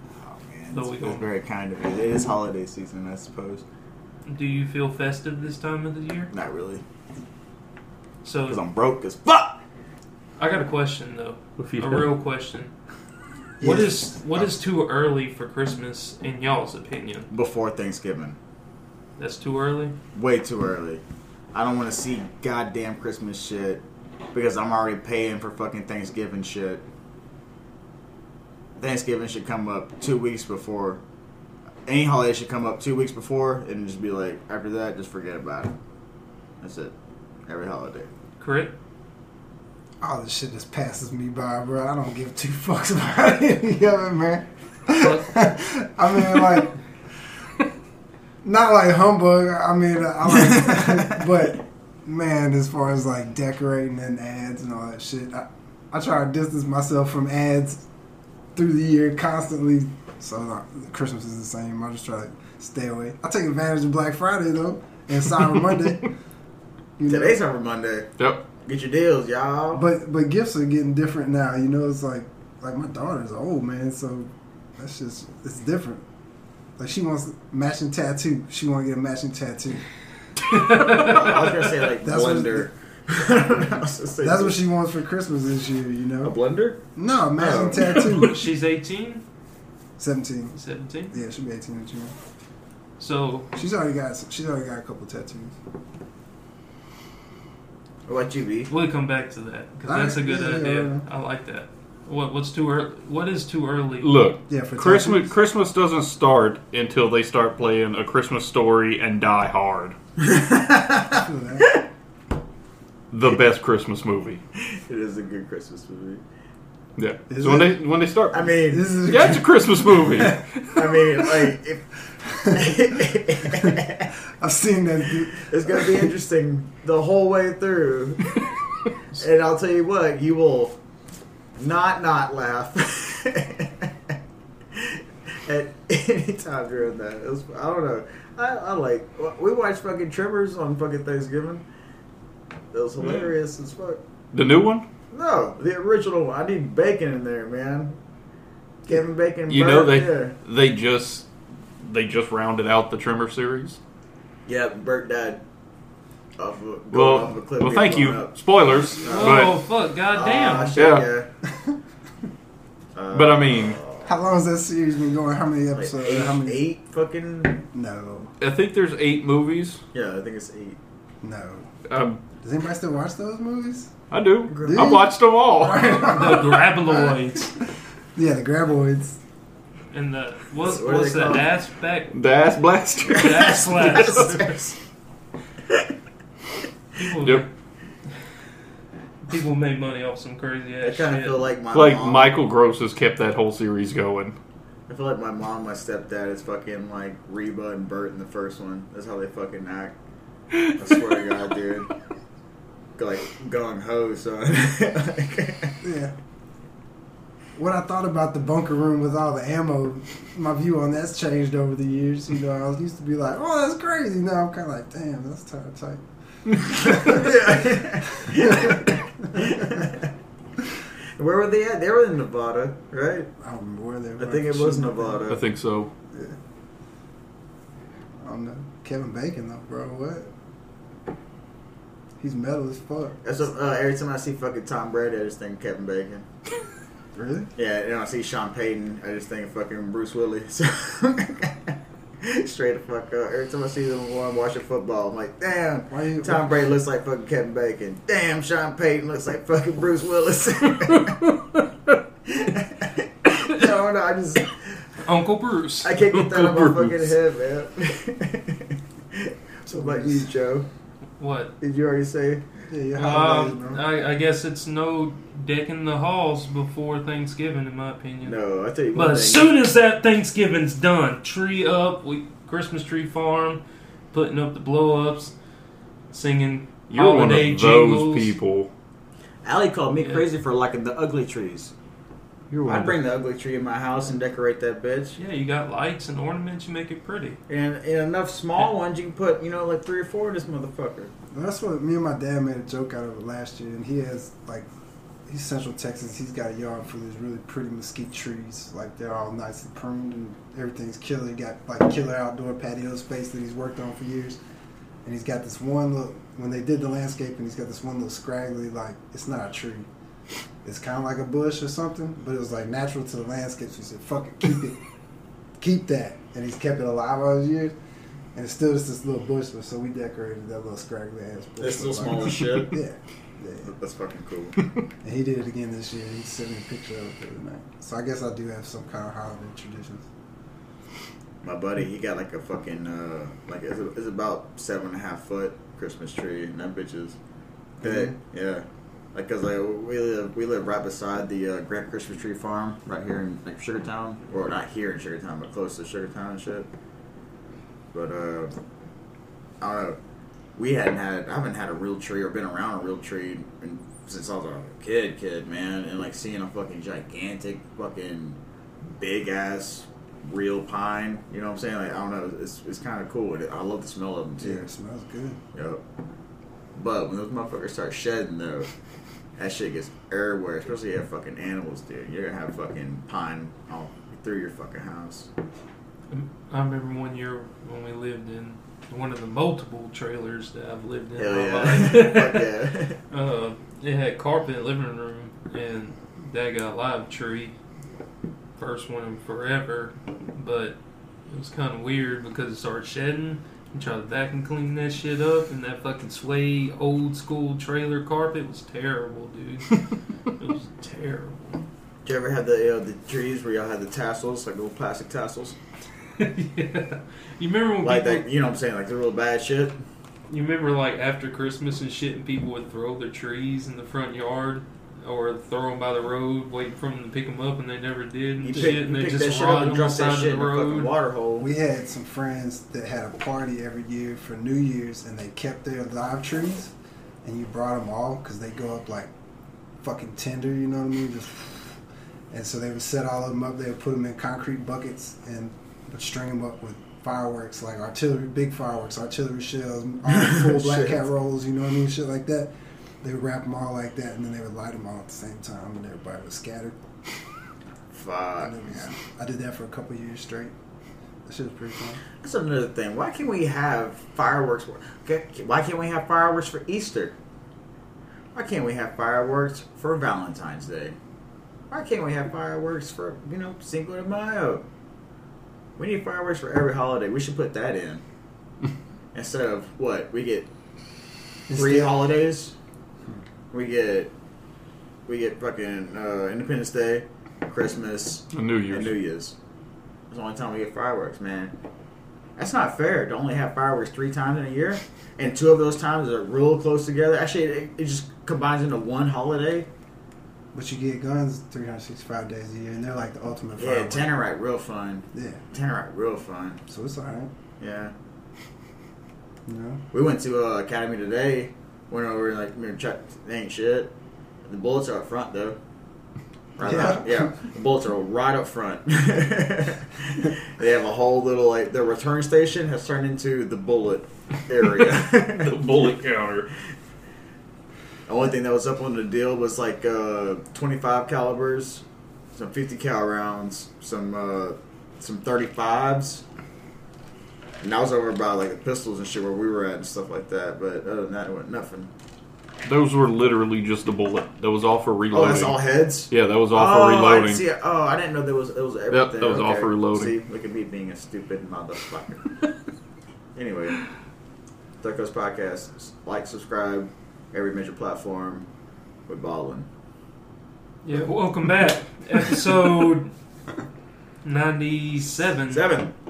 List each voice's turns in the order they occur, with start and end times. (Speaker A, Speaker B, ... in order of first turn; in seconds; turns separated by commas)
Speaker A: 0.2-3.6, Speaker B: 0.7-1.3, Speaker B: 4.3-6.3, Speaker A: 6.3-6.8, Speaker B: 8.2-8.6, Speaker A: 8.5-9.6, Speaker B: 10.4-12.7, Speaker C: 11.6-12.1, Speaker D: 13.6-14.1, Speaker B: 13.6-17.3, Speaker A: 17.3-18.4, Speaker B: 19.2-19.9, Speaker A: 20.1-26.8, Speaker A: 28.8-31.0, Speaker A: 31.9-35.7, Speaker A: 36.6-36.9, Speaker A: 37.5-38.1, Speaker B: 38.4-38.7, Speaker D: 40.0-46.8, Speaker B: 44.9-45.3, Speaker D: 48.4-57.8, Speaker D: 58.5-66.1, Speaker D: 67.0-67.4, Speaker A: 67.1-69.8, Speaker C: 68.2-68.4, Speaker D: 69.7-76.0, Speaker D: 76.8-79.9, Speaker B: 80.5-81.4, Speaker A: 80.8-84.5, Speaker D: 82.0-82.7, Speaker D: 83.5-86.3, Speaker C: 86.2-86.8, Speaker D: 87.0-88.4, Speaker A: 87.2-88.1, Speaker B: 88.0-89.2, Speaker D: 90.0-90.5, Speaker B: 90.5-91.1, Speaker D: 91.1-92.1, Speaker B: 93.0-93.5, Speaker D: 93.5-95.5, Speaker A: 98.0-98.7, Speaker B: 98.7-104.1, Speaker D: 99.8-101.0, Speaker C: 104.0-110.0, Speaker D: 104.5-105.3, Speaker A: 110.2-111.8, Speaker D: 111.2-111.7, Speaker C: 113.1-114.4, Speaker A: 114.7-116.2, Speaker C: 117.0-121.5, Speaker D: 117.3-117.8, Speaker A: 118.3-118.8, Speaker D: 118.7-120.3, Speaker A: 120.7-121.9, Speaker D: 122.3-122.7, Speaker A: 122.4-124.1, Speaker D: 123.5-123.8, Speaker D: 124.4-126.1, Speaker A: 125.4-128.4, Speaker A: 129.1-130.8, Speaker A: 131.6-134.1, Speaker A: 134.7-141.6, Speaker A: 142.7-144.0, Speaker C: 143.0-143.3, Speaker C: 144.3-144.8, Speaker A: 145.1-147.9, Speaker A: 148.8-150.3, Speaker C: 149.5-151.3, Speaker C: 151.8-153.8, Speaker A: 154.5-155.4, Speaker A: 156.4-159.5, Speaker C: 156.9-159.5, Speaker B: 159.0-160.8, Speaker A: 160.1-161.3, Speaker C: 160.8-161.1, Speaker D: 161.4-161.8, Speaker A: 162.9-164.1, Speaker C: 163.1-163.8, Speaker D: 164.0-166.6, Speaker A: 165.7-167.6, Speaker D: 167.7-168.3, Speaker C: 168.4-169.8, Speaker A: 169.9-170.8, Speaker D: 171.2-171.7, Speaker C: 171.9-172.2, Speaker D: 172.4-173.9, Speaker C: 174.1-176.3, Speaker A: 174.5-174.9, Speaker D: 174.6-177.1, Speaker B: 176.1-177.5, Speaker D: 178.1-179.2, Speaker B: 179.9-182.1, Speaker A: 180.6-181.4, Speaker C: 182.1-184.1, Speaker B: 183.1-184.5, Speaker A: 183.2-184.8, Speaker B: 187.0-187.5, Speaker B: 189.2-191.4, Speaker A: 190.8-192.4, Speaker C: 191.7-194.3, Speaker A: 194.9-199.9, Speaker A: 200.8-201.9, Speaker A: 203.0-205.7, Speaker D: 205.8-206.1, Speaker D: 207.6-216.0, Speaker D: 216.6-217.4, Speaker A: 216.8-220.1, Speaker D: 218.2-219.9, Speaker A: 221.2-223.3, Speaker D: 223.4-225.3, Speaker A: 224.2-225.4, Speaker C: 225.3-225.9, Speaker D: 226.1-226.4, Speaker D: 228.2-230.3, Speaker D: 232.2-233.2, Speaker A: 233.2-236.2, Speaker D: 237.1-237.5, Speaker A: 237.6-251.2, Speaker D: 245.9-246.6, Speaker A: 252.2-254.9, Speaker B: 255.0-255.9, Speaker A: 255.8-260.7, Speaker C: 256.0-257.1, Speaker D: 259.7-260.3, Speaker B: 261.2-261.5, Speaker A: 261.6-262.4, Speaker D: 262.7-263.8, Speaker B: 263.0-268.4, Speaker A: 268.2-269.5, Speaker B: 268.9-275.3, Speaker B: 276.1-278.3, Speaker C: 276.9-278.7, Speaker A: 279.4-281.7, Speaker B: 280.0-280.2, Speaker A: 282.6-285.2, Speaker B: 285.2-287.4, Speaker A: 287.5-291.1, Speaker D: 291.3-294.7, Speaker D: 295.2-304.4, Speaker D: 305.0-309.9, Speaker D: 310.6-314.8, Speaker D: 315.6-317.7, Speaker D: 318.3-323.7, Speaker A: 321.6-322.8, Speaker A: 323.6-324.5, Speaker D: 325.0-330.1, Speaker A: 331.4-337.2, Speaker D: 337.8-338.1, Speaker A: 337.8-346.7, Speaker A: 347.9-348.5, Speaker A: 349.6-350.0, Speaker A: 350.6-358.4, Speaker A: 359.0-364.7, Speaker D: 364.4-365.4, Speaker A: 365.5-365.8, Speaker A: 366.7-368.7, Speaker A: 369.4-375.3, Speaker B: 376.1-382.5, Speaker A: 381.2-383.0, Speaker B: 383.1-387.5, Speaker B: 388.6-390.8, Speaker B: 391.3-399.8, Speaker B: 400.4-401.6, Speaker A: 402.0-405.6, Speaker B: 406.2-408.2, Speaker A: 407.8-409.8, Speaker B: 410.3-420.9, Speaker A: 418.4-421.5, Speaker D: 421.4-429.1, Speaker D: 429.8-446.8, Speaker A: 440.2-441.0, Speaker A: 447.9-448.8, Speaker D: 448.4-450.5, Speaker D: 451.2-452.0, Speaker A: 452.2-457.1, Speaker A: 458.3-460.9, Speaker A: 461.7-464.6, Speaker A: 465.8-468.0, Speaker A: 469.1-470.5, Speaker D: 471.5-471.9, Speaker A: 471.5-472.5, Speaker A: 473.5-474.1, Speaker A: 475.1-479.3, Speaker C: 478.3-478.9, Speaker A: 480.1-481.5, Speaker A: 482.4-489.7, Speaker D: 490.5-494.1, Speaker A: 493.6-496.6, Speaker D: 495.1-495.4, Speaker D: 496.7-497.3, Speaker A: 497.6-497.9, Speaker D: 499.5-499.8, Speaker A: 499.9-503.9, Speaker A: 504.4-505.6, Speaker A: 506.6-515.9, Speaker D: 506.6-507.3, Speaker C: 515.1-516.5, Speaker A: 518.1-526.2, Speaker A: 527.6-531.9, Speaker C: 532.6-535.5, Speaker A: 535.1-542.2, Speaker C: 536.1-537.4, Speaker C: 538.9-540.1, Speaker A: 543.3-543.9, Speaker A: 544.8-548.5, Speaker A: 549.1-549.7, Speaker B: 550.8-553.1, Speaker B: 554.2-555.7, Speaker A: 555.5-555.9